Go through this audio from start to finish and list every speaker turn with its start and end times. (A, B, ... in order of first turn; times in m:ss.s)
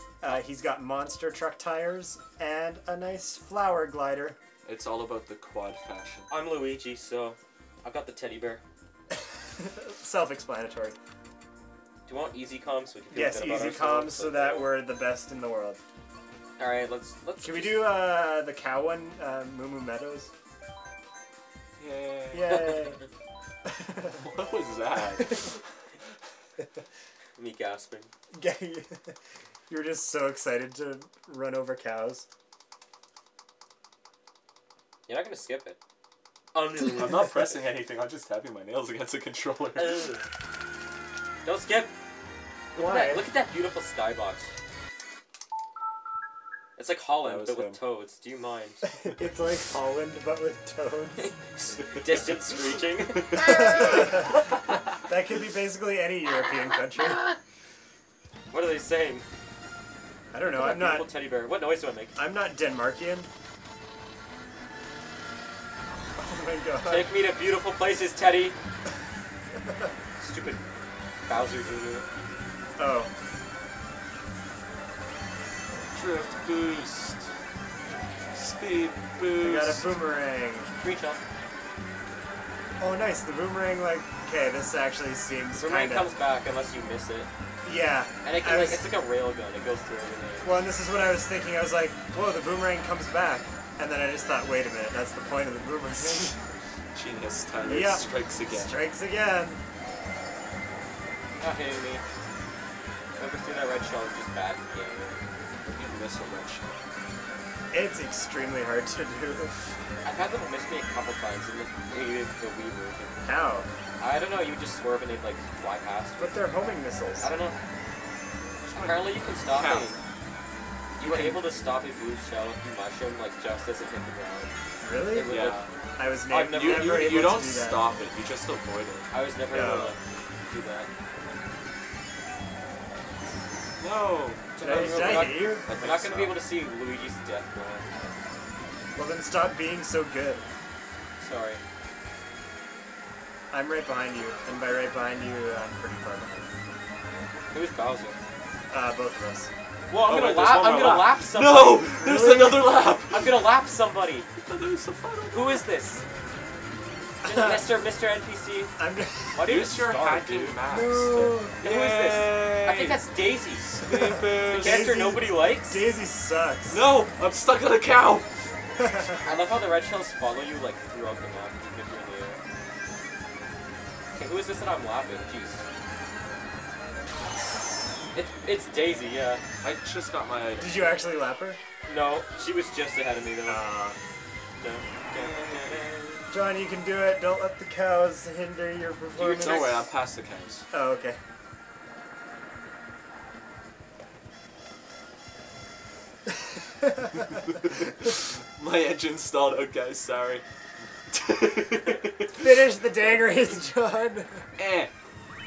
0:00.2-0:04.4 A
0:04.6-0:06.3 B
0:06.3-0:08.6 C
0:09.1-0:11.0 A
0:12.1-0:14.8 C
0:13.1-0:15.8 A
0:13.1-0:14.1 B
0:16.6-0:18.0 C
0:17.4-0:20.3 A
0:21.8-0:23.0 B
0:22.3-0:23.0 A
0:23.6-0:24.2 A
0:24.1-0:25.6 B
0:25.2-0:25.5 A
0:27.4-0:28.1 C
0:28.4-0:29.2 A
0:29.7-0:32.3 A
0:35.1-0:35.8 C
0:36.5-0:37.4 C
0:36.9-0:40.1 B
0:39.8-0:40.3 C
0:41.4-0:41.9 C
0:42.8-0:43.3 A
0:42.8-0:44.5 C
0:46.8-0:48.8 C
0:47.2-0:47.8 B
0:48.8-0:51.3 A
0:51.2-0:54.1 C
0:51.9-0:52.4 B
0:53.4-0:54.4 A
0:55.0-0:57.2 A
0:57.0-0:57.4 C
0:58.5-0:59.3 C
1:00.3-1:01.1 A
1:00.5-1:02.2 C
1:02.2-1:03.3 A
1:06.2-1:07.1 A
1:06.8-1:08.6 C
1:10.2-1:10.6 C
1:11.3-1:12.1 C
1:12.8-1:13.1 A
1:15.9-1:17.3 B
1:18.3-1:20.0 B
1:19.4-1:20.7 A
1:20.8-1:21.2 C
1:22.8-1:26.1 A
1:25.6-1:27.3 C
1:27.6-1:28.9 A
1:28.2-1:30.5 C
1:30.4-1:36.4 A
1:36.9-1:38.8 B
1:37.6-1:39.6 A
1:41.4-1:42.0 C
1:43.2-1:45.2 C
1:45.6-1:46.8 B
1:47.7-1:49.6 A
1:50.0-1:53.2 C
1:53.2-1:53.7 A
1:54.0-1:56.5 C
1:56.2-1:57.3 A
1:57.2-1:57.6 C
1:58.6-2:00.0 B
1:58.7-2:00.0 C
2:01.0-2:04.5 C
2:01.0-2:01.4 A
2:04.8-2:05.4 A
2:05.1-2:05.6 C
2:05.3-2:05.7 B
2:06.0-2:07.8 A
2:06.3-2:07.0 C
2:06.5-2:09.1 B
2:09.1-2:10.9 C
2:09.5-2:10.0 A
2:13.8-2:16.4 B
2:14.6-2:17.9 C
2:14.6-2:15.7 A
2:19.0-2:20.5 A
2:21.2-2:21.6 C
2:23.5-2:26.5 A
2:27.5-2:28.2 C
2:28.7-2:29.5 A
2:29.9-2:31.9 C
2:30.1-2:33.3 B
2:31.9-2:32.7 A
2:33.1-2:34.3 C
2:34.4-2:35.6 B
2:35.3-2:36.0 C
2:37.2-2:38.7 C
2:37.2-2:37.7 A
2:38.8-2:39.5 A
2:39.4-2:40.6 C
2:39.4-2:43.0 B
2:40.7-2:41.6 A
2:41.6-2:43.7 C
2:43.6-2:45.0 B
2:43.8-2:46.8 A
2:44.5-2:45.8 C
2:46.7-2:48.3 B
2:48.8-2:49.2 A
2:49.2-2:52.4 C
2:54.1-2:55.6 C
2:58.2-2:59.4 C
2:59.6-3:01.0 B
3:00.6-3:01.6 A
3:01.8-3:03.6 C
3:03.4-3:04.0 A
3:04.6-3:06.2 C
3:05.1-3:06.0 B
3:06.3-3:09.8 A
3:09.2-3:09.9 C
3:09.2-3:10.7 B
3:10.7-3:11.2 A
3:17.5-3:20.4 B
3:21.1-3:22.5 B
3:22.3-3:24.4 A
3:24.6-3:24.9 B